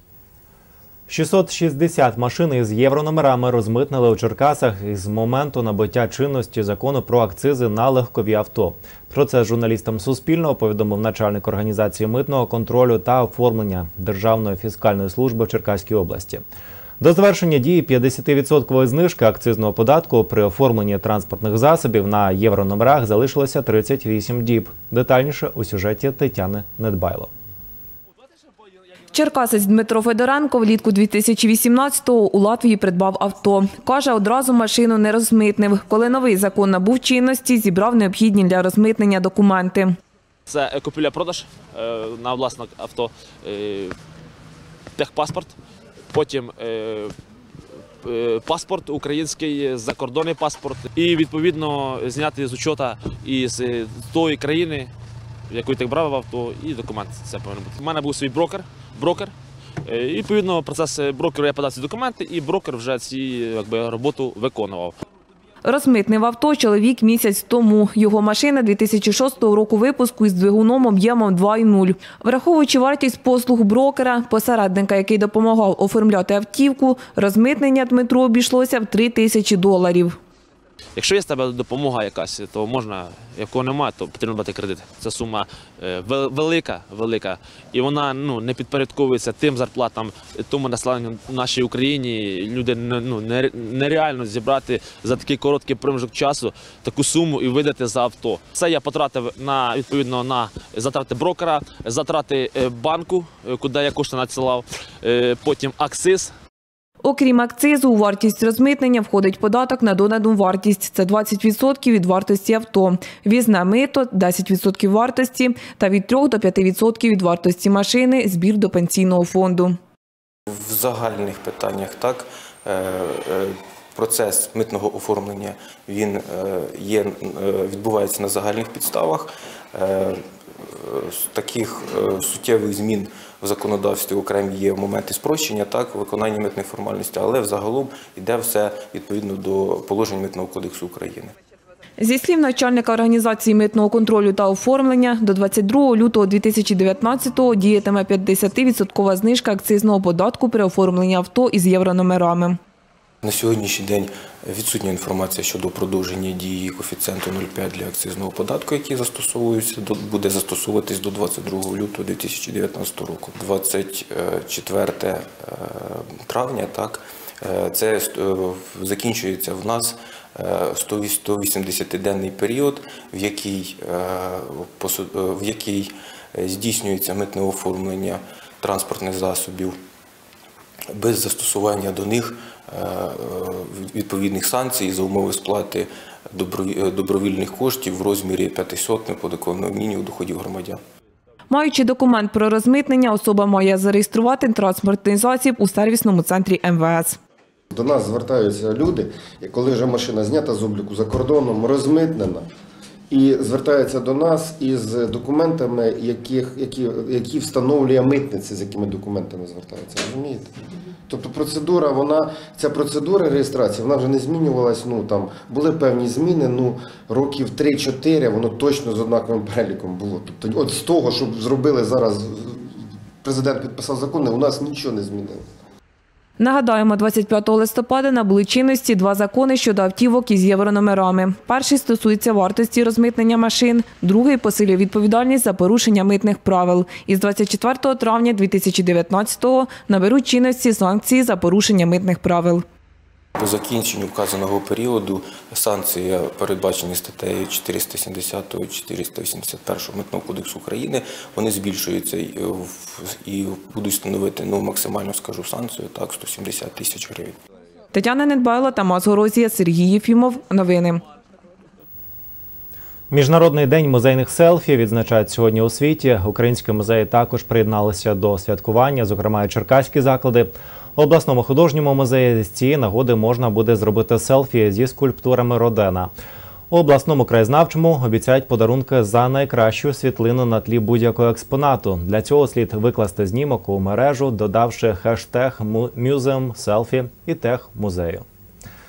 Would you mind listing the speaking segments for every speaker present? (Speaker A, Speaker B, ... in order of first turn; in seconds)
Speaker A: 1.1-16.4, 17.0-27.3, 263.1-276.1, 276.7-288.2
Speaker B: 29.1-40.0, 65.6-80.2, 107.0-119.8, 142.0-152.6, 191.5-197.2, 226.4-242.6, 257.9-261.0
Speaker C: 40.5-43.9, 45.0-45.5, 46.1-47.1, 48.0-54.9, 55.5-59.3, 59.8-64.9, 81.0-106.3
Speaker D: 120.5-141.3, 153.2-179.7, 180.9-190.8, 243.4-257.4
Speaker E: 197.7-202.4, 203.1-210.5, 211.1-225.4